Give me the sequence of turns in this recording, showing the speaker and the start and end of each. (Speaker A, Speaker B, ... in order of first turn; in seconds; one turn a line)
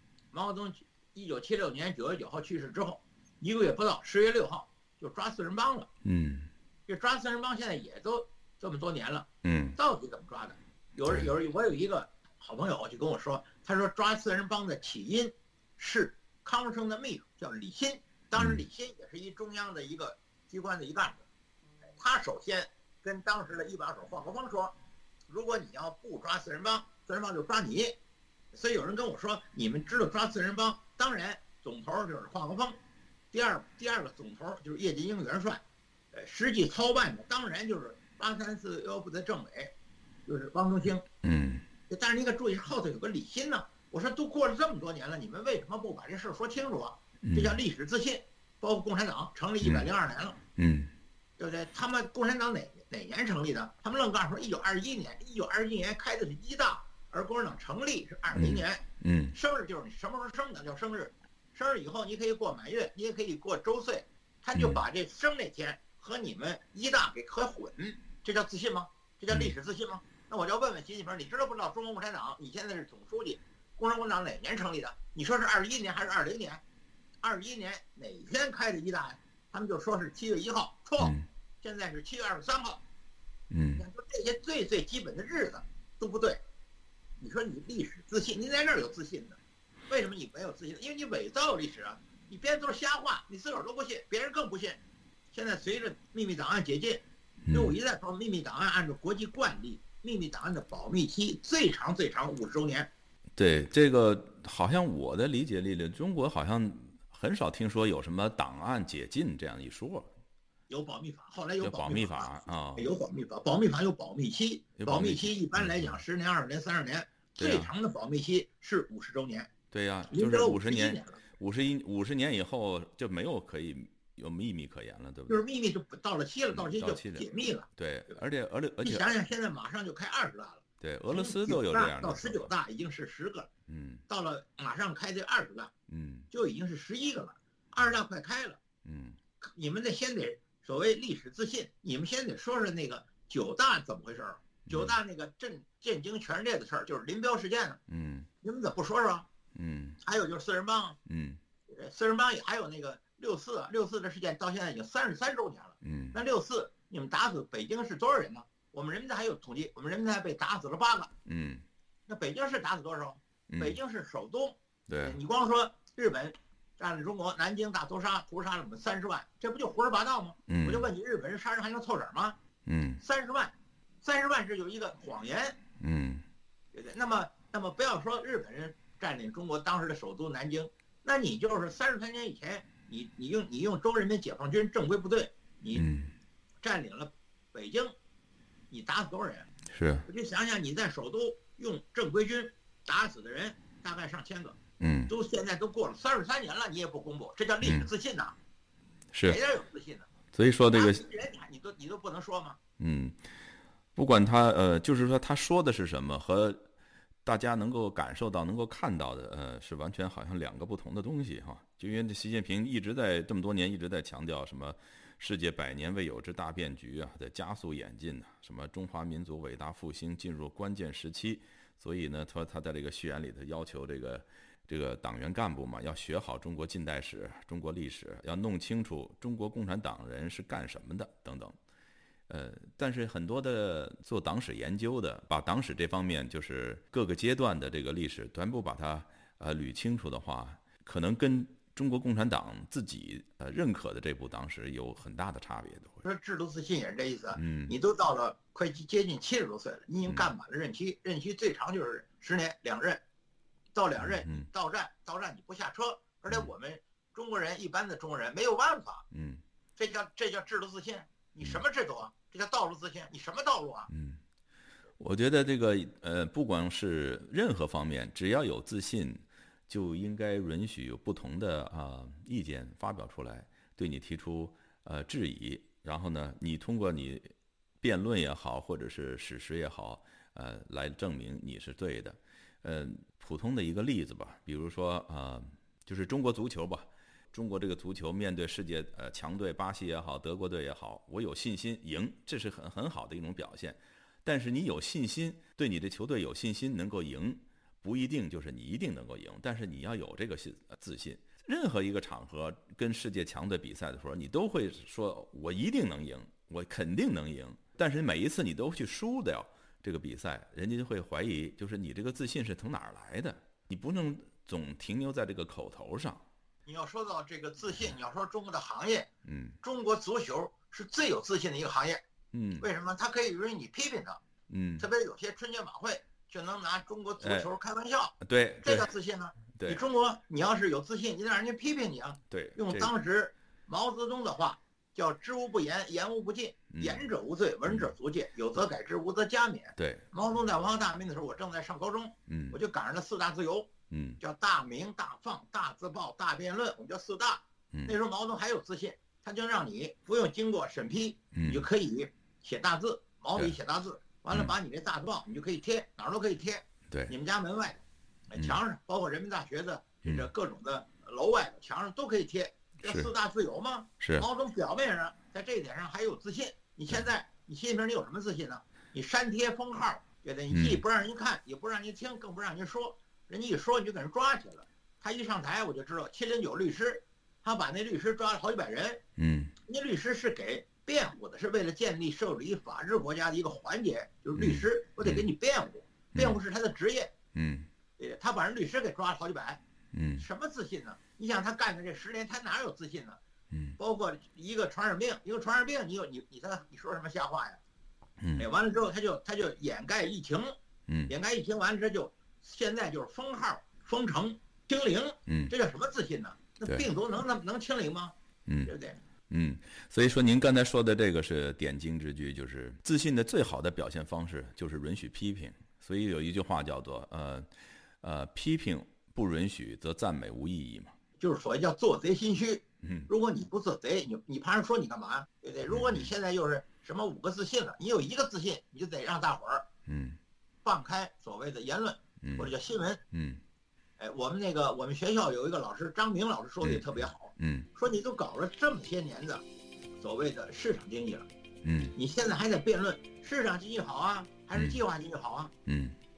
Speaker A: 0.3-5.9
Speaker B: 6.0-6.5
Speaker A: 6.9-21.2
Speaker B: 9.4-9.8
Speaker B: 18.4-18.6
Speaker A: 22.0-24.7
Speaker A: 25.3-27.9
Speaker A: 28.5-32.8
Speaker A: 33.3-35.6
Speaker A: 36.1-39.7
Speaker A: 40.3-41.0
Speaker B: 41.2-41.6
Speaker A: 41.9-50.4
Speaker B: 47.2-47.6
Speaker B: 49.6-49.9
Speaker B: 50.6-50.9
Speaker A: 51.4-76.6
Speaker B: 58.3-59.3
Speaker B: 64.5-64.8
Speaker A: 77.2-82.8
Speaker B: 81.0-81.2
Speaker B: 83.5-83.8
Speaker A: 83.8-86.4
Speaker A: 87.2-94.8
Speaker A: 95.3-102.9
Speaker B: 97.5-97.8
Speaker B: 103.3-110.1
Speaker A: 110.7-119.5
Speaker B: 111.6-112.8
Speaker B: 114.8-116.0
Speaker B: 117.4-117.7
Speaker B: 119.7-125.4
Speaker A: 120.1-121.2
Speaker A: 125.3-127.7
Speaker B: 126.5-129.1
Speaker A: 128.8-133.5
Speaker B: 130.8-132.5
Speaker B: 133.7-134.0
Speaker A: 134.1-135.7
Speaker B: 135.9-136.3
Speaker A: 136.3-138.6
Speaker B: 138.8-139.2
Speaker A: 139.4-147.8
Speaker B: 144.7-145.0
Speaker B: 147.9-148.3
Speaker A: 148.4-149.2
Speaker B: 149.5-150.0
Speaker A: 150.0-151.0
Speaker B: 151.1-151.4
Speaker A: 151.7-161.1
Speaker B: 155.8-156.2
Speaker B: 161.2-161.6
Speaker A: 162.1-172.4
Speaker B: 163.5-163.8
Speaker B: 164.9-165.2
Speaker B: 170.5-170.9
Speaker B: 172.7-173.0
Speaker A: 173.0-175.6
Speaker B: 175.8-176.2
Speaker A: 176.7-185.9
Speaker B: 185.7-186.1
Speaker A: 186.6-187.9
Speaker A: 188.7-189.5
Speaker B: 189.7-190.1
Speaker A: 190.1-198.3
Speaker B: 194.8-195.1
Speaker B: 197.6-197.9
Speaker B: 199.1-199.4
Speaker A: 199.2-200.1
Speaker B: 200.3-201.0
Speaker A: 200.7-202.6
Speaker B: 202.8-203.2
Speaker B: 203.9-206.7
Speaker B: 207.2-231.5
Speaker B: 232.3-246.0
Speaker A: 246.0-253.0
Speaker B: 247.3-247.7
Speaker A: 253.7-259.0
Speaker B: 254.0-254.5
Speaker B: 259.1-259.4
Speaker A: 259.8-263.9
Speaker B: 263.9-264.2
Speaker B: 265.0-277.3
Speaker B: 277.8-316.2
Speaker A: 316.6-319.1
Speaker B: 319.2-319.6
Speaker A: 319.6-322.0
Speaker B: 322.3-322.6
Speaker A: 322.6-324.2
Speaker B: 324.5-324.9
Speaker A: 324.8-379.0
Speaker B: 327.2-327.5
Speaker B: 328.2-328.9
Speaker B: 329.5-329.9
Speaker B: 332.3-332.9
Speaker B: 336.7-337.0
Speaker B: 337.6-337.9
Speaker B: 339.8-340.1
Speaker B: 342.3-342.6
Speaker B: 343.9-344.2
Speaker B: 351.3-351.7
Speaker B: 360.0-360.3
Speaker B: 362.8-363.1
Speaker B: 364.0-364.3
Speaker B: 370.5-370.8
Speaker B: 379.2-379.5
Speaker A: 379.6-387.1
Speaker B: 384.4-385.3
Speaker B: 386.1-386.4
Speaker B: 387.3-387.7
Speaker A: 388.0-389.6
Speaker B: 389.9-390.2
Speaker A: 390.2-393.2
Speaker A: 393.8-397.6
Speaker B: 398.2-398.5
Speaker A: 398.4-400.5
Speaker A: 401.1-408.1
Speaker B: 405.3-405.5
Speaker B: 408.4-408.7
Speaker A: 408.6-409.0
Speaker B: 409.3-417.5
Speaker B: 418.0-420.9
Speaker A: 421.2-429.7
Speaker B: 422.8-423.1
Speaker B: 425.7-426.1
Speaker B: 429.9-430.2
Speaker A: 430.6-433.0
Speaker B: 432.2-432.5
Speaker B: 433.1-433.4
Speaker A: 434.0-439.4
Speaker B: 436.6-437.7
Speaker A: 440.0-441.3
Speaker B: 441.6-441.9
Speaker A: 441.9-445.5
Speaker B: 445.6-445.9